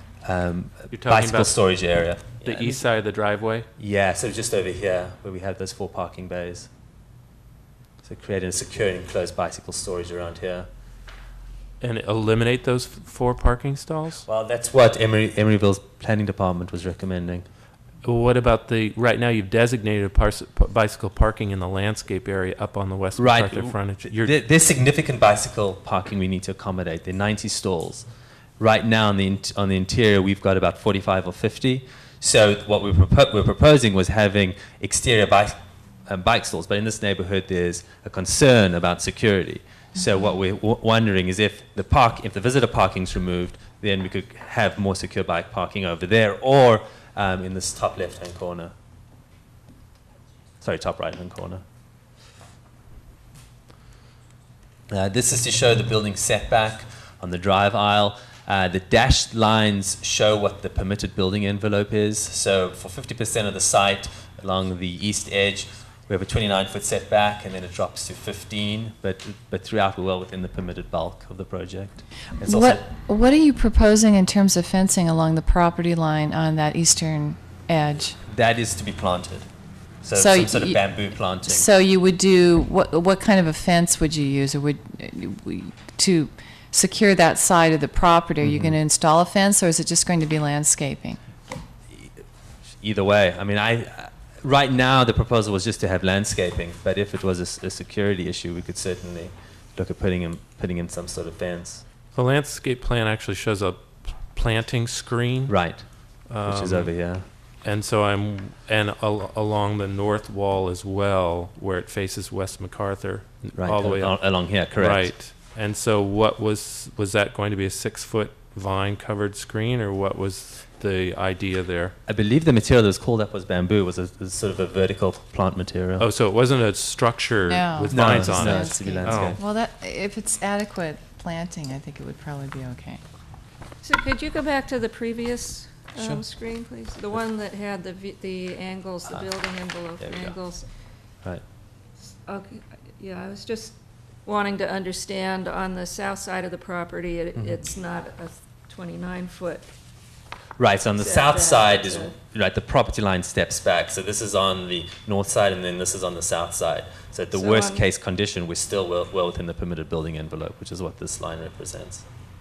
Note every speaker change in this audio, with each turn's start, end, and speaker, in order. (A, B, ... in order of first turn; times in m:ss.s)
0:00.2-0:02.8 A
0:00.9-0:01.5 B
0:02.4-0:03.7 B
0:03.8-0:06.7 A
0:08.0-0:10.7 A
0:11.8-0:14.2 B
0:14.3-0:17.4 A
0:18.0-0:24.3 B
0:23.2-0:28.0 A
0:28.6-0:35.6 A
0:36.1-0:48.7 A
0:50.6-0:51.6 A
0:54.9-1:12.8 A
1:12.4-1:18.2 C
1:18.2-1:19.5 A
1:20.0-1:21.7 A
1:20.1-1:31.2 C
1:28.4-1:28.8 A
1:31.9-1:32.2 A
1:32.8-1:41.8 A
1:42.1-1:45.6 B
1:45.5-1:45.9 A
1:46.3-1:46.9 B
1:46.4-1:47.2 A
1:47.6-2:02.0 B
1:53.5-1:55.1 A
2:02.1-2:06.1 A
2:06.0-2:09.4 B
2:07.5-2:13.0 C
2:07.9-2:09.4 A
2:13.8-2:20.6 D
2:20.0-2:20.4 A
2:22.2-2:29.7 D
2:30.6-2:42.0 A
2:31.0-2:32.2 D
2:37.3-2:37.8 D